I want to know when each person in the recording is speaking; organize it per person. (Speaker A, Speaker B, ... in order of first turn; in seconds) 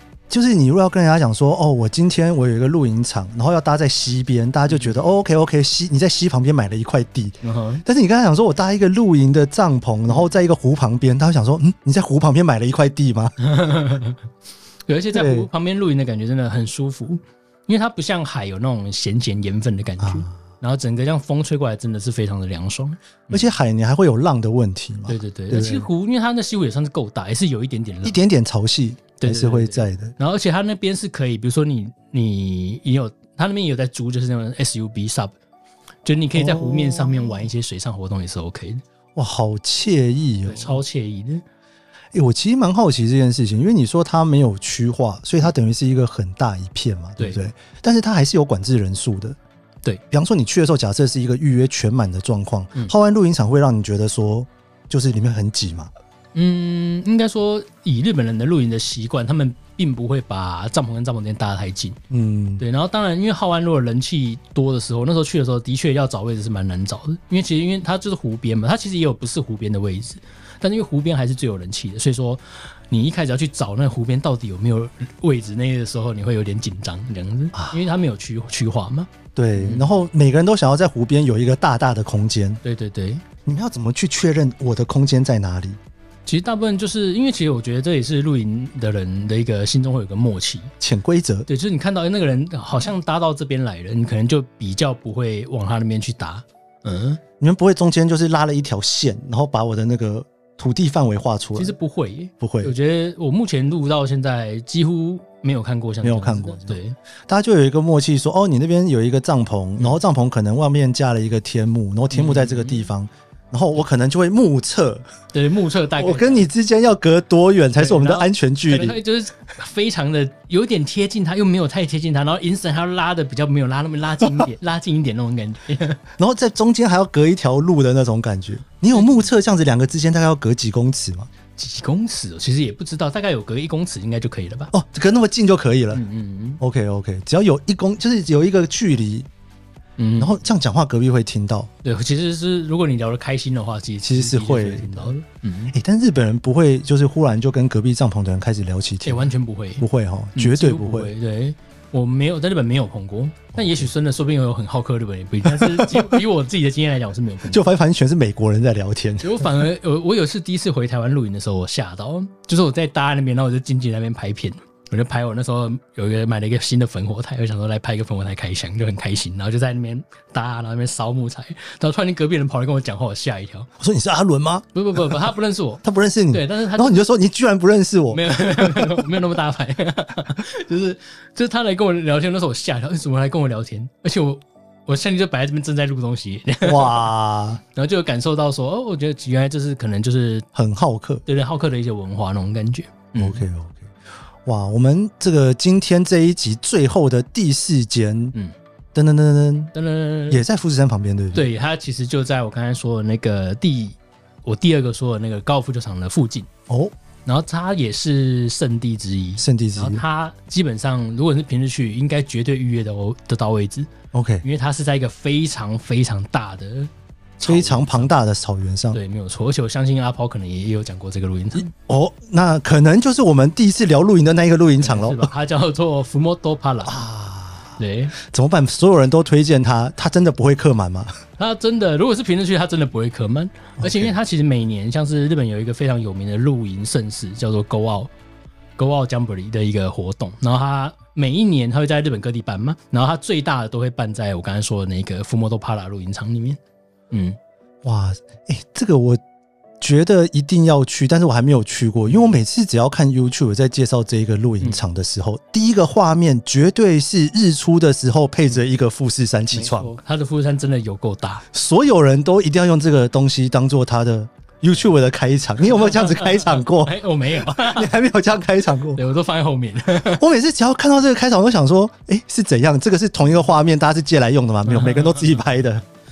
Speaker A: 0.3-13.4, 15.1-15.5, 20.0-20.4, 23.3-25.9, 28.1-30.1, 36.4-37.4, 39.2-40.8, 42.1-49.4, 50.1-55.9, 62.1-62.6, 77.5-77.8, 79.3-82.6, 83.5-85.8, 90.8-91.5, 97.4-101.7, 102.4-102.7, 106.0-115.1, 116.0-119.0, 126.2-131.3, 134.7-136.0, 136.6-139.3, 140.2-141.7, 144.0-145.1, 145.7-151.1, 153.6-153.9, 155.5-156.1, 157.5-159.5, 173.8-175.2, 175.8-178.2, 186.6-187.6, 190.6-191.2, 193.2-193.9, 194.5-198.3, 198.9-199.7, 200.3-201.5, 209.4-210.0, 214.1-214.4, 217.5-219.0, 221.6-225.3, 226.8-231.2, 233.8-234.2, 247.8-249.2, 249.8-259.9, 261.5-269.0, 270.2-275.8
Speaker B: 4.7-5.0, 7.4-7.8, 13.4-14.2, 14.9-23.5, 25.1-28.2, 29.2-35.4, 36.0-38.8, 40.5-41.4, 56.4-62.0, 62.6-79.8, 82.6-83.2, 86.3-90.7, 91.5-97.2, 101.5-107.0, 112.1-112.9, 115.3-116.5, 117.8-126.0, 128.9-129.3, 131.6-134.7, 135.9-136.6, 140.0-140.4, 141.8-145.8, 149.1-157.7, 159.2-173.7, 174.7-177.1, 178.1-187.1, 187.7-190.5, 191.3-193.4, 199.7-200.4, 201.3-206.5, 207.2-213.9, 214.4-218.1, 218.9-221.7, 224.8-227.0, 227.8-228.1, 231.4-238.1, 238.8-246.6, 247.1-247.4, 252.1-252.4, 259.5-261.4, 265.7-267.9, 268.8-270.2, 274.7-275.4